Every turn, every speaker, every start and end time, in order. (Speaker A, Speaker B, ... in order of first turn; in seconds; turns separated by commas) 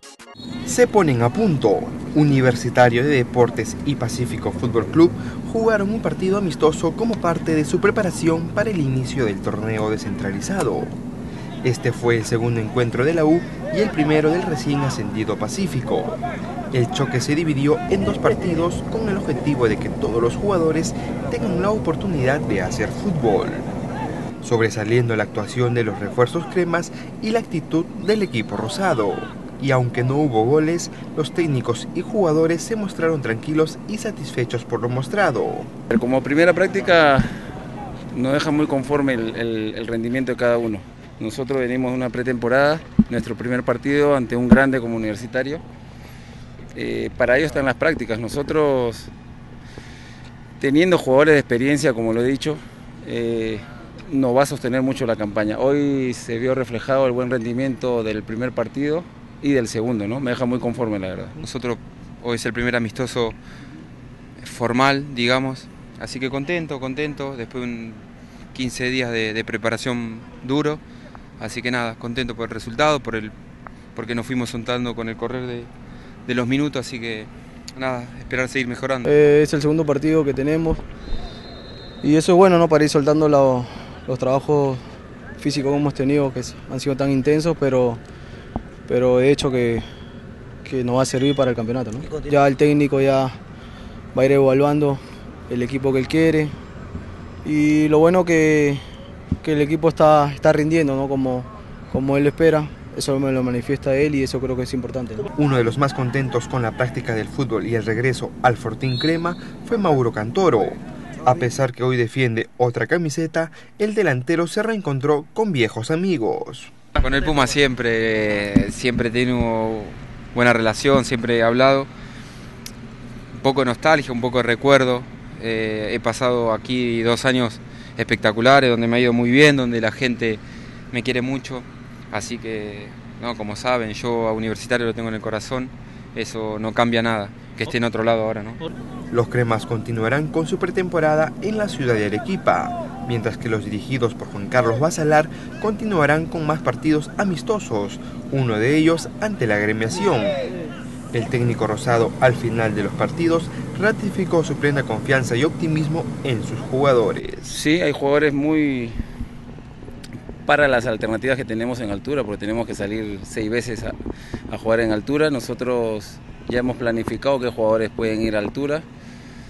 Speaker A: 0.7-10.9, Speaker A: 11.6-16.2, Speaker A: 16.7-23.6, Speaker A: 24.4-35.7, Speaker B: 35.9-37.3, Speaker B: 38.1-45.6, Speaker B: 46.7-49.1, Speaker B: 50.6-61.3, Speaker C: 61.4-63.4, Speaker C: 64.4-70.8, Speaker C: 71.4-73.3, Speaker C: 73.9-75.7, Speaker C: 76.2-79.1, Speaker D: 79.0-80.8, Speaker D: 82.0-84.8, Speaker D: 85.4-88.0, Speaker D: 88.9-89.8, Speaker D: 90.6-93.3, Speaker D: 94.1-96.5, Speaker D: 97.4-98.8, Speaker D: 99.4-105.2, Speaker A: 105.3-116.7, Speaker C: 116.9-121.9, Speaker C: 123.3-130.4, Speaker C: 130.9-138.6, Speaker A: 139.1-150.3, Speaker A: 151.1-157.6, Speaker B: 157.5-158.9, Speaker B: 160.4-163.9, Speaker B: 164.5-168.8